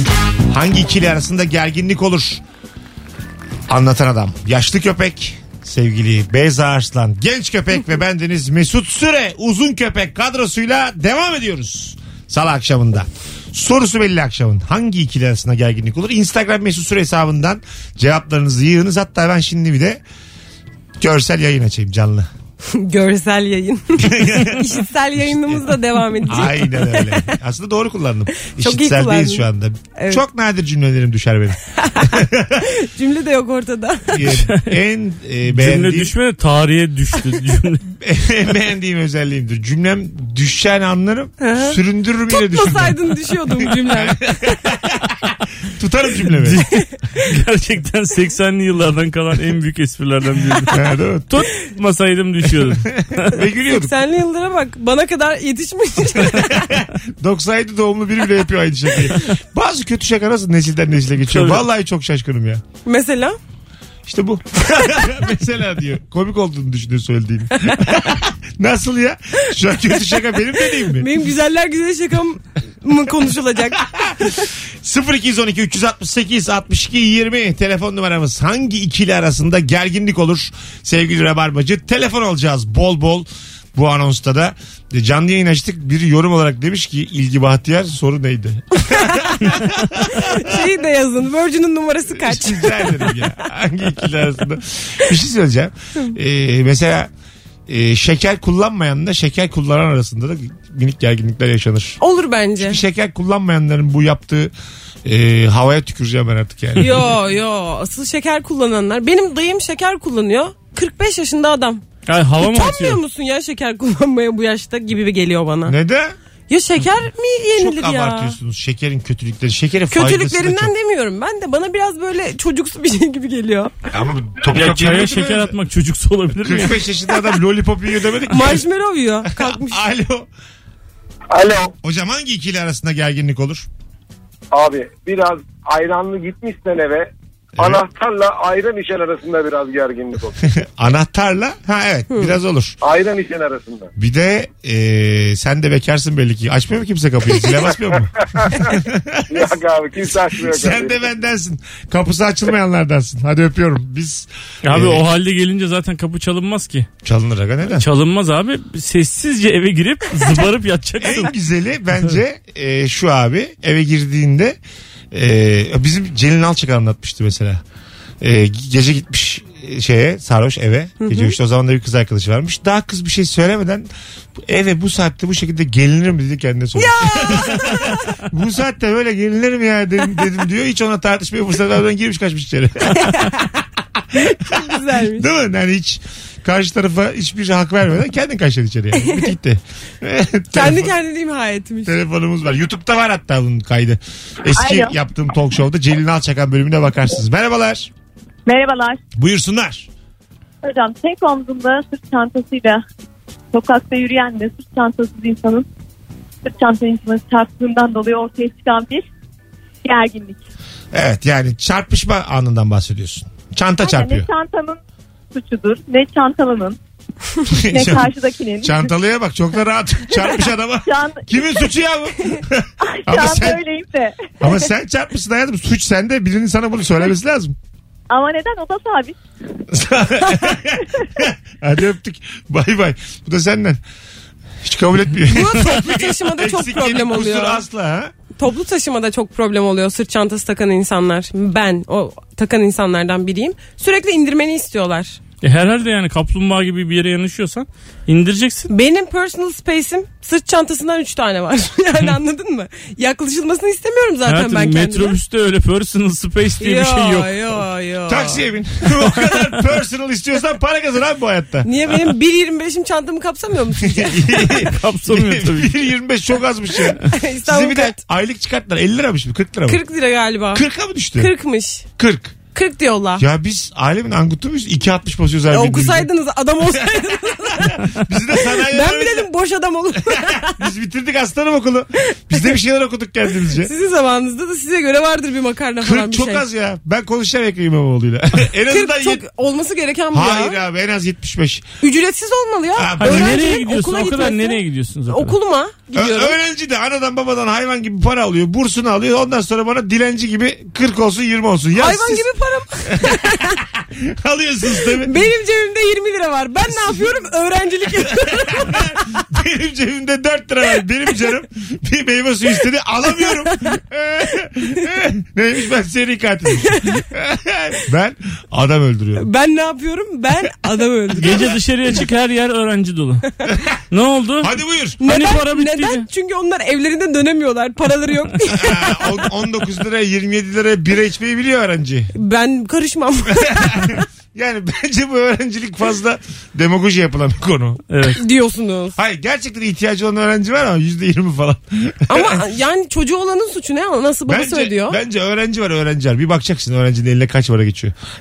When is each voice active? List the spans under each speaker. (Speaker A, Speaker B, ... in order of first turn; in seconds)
Speaker A: 0.5-2.4, 3.7-20.0, 21.0-22.3, 24.0-32.7, 34.1-36.1, 38.0-46.6, 50.7-51.3, 52.6-53.9, 56.1-62.6, 64.0-71.1, 73.6-90.6, 92.1-97.1, 97.7-102.0, 102.6-104.5, 105.0-107.0, 115.6-116.1, 117.5-120.7, 123.9-125.5, 126.4-128.6, 129.2-130.3, 131.8-133.7, 137.6-137.8, 140.4-142.8, 143.9-149.5, 150.4-155.0, 157.0-157.9, 161.0-164.6, 165.1-167.6, 168.2-183.6, 184.1-190.9, 191.8-197.9, 199.1-199.9, 210.9-214.3, 217.5-223.6, 224.4-227.6, 229.7-233.8, 234.6-238.1, 258.1-261.7, 263.8-269.8, 270.5-271.3, 272.0-272.3, 273.2-276.1, 276.7-279.3, 280.1-283.7, 285.8-289.2, 290.1-291.6, 292.8-293.4, 295.9-302.3, 302.9-305.2, 306.6-307.1, 307.9-319.3, 324.4-325.0, 328.5-332.1, 333.3-337.8, 338.9-342.4, 344.3-347.9
Speaker B: 22.7-27.4, 28.4-30.2, 31.8-34.3, 41.4-44.6, 53.7-56.6, 62.9-63.4, 70.7-74.5, 88.9-93.0, 102.0-102.8, 106.8-111.8, 112.4-115.8, 116.5-118.3, 119.9-123.7, 128.3-129.8, 171.0-171.3, 176.8-178.2, 182.9-183.5, 184.2-185.3, 190.5-191.9, 235.2-237.6, 238.4-245.2, 248.7-255.2, 256.6-258.4, 261.6-264.3, 267.0-268.0, 269.6-270.6, 271.2-271.8, 272.5-273.2, 275.5-280.6, 282.1-282.4, 283.5-286.4, 288.7-290.6, 291.8-296.4, 301.8-303.6, 304.8-309.2, 316.6-317.0, 319.1-321.5, 325.0-329.3, 332.1-334.0, 338.2-338.9, 342.1-345.0
Speaker C: 34.3-34.7, 35.5-37.8, 46.3-53.4, 61.3-61.6, 112.0-113.0, 124.4-126.8, 154.6-156.9, 157.8-161.3, 245.4-248.7, 254.2-257.6, 264.5-265.8, 293.0-295.4, 321.2-323.3, 323.9-326.1, 337.9-338.2
Speaker D: 131.3-131.7, 134.5-140.5, 142.8-143.9, 148.4-148.7, 149.3-151.1
Speaker E: 194.5-194.9, 198.4-199.0, 200.6-202.8, 203.5-205.7, 206.4-209.1, 209.8-210.4, 213.8-214.8, 215.3-216.8, 217.5-218.9, 220.9-221.7, 222.8-224.6, 228.1-229.1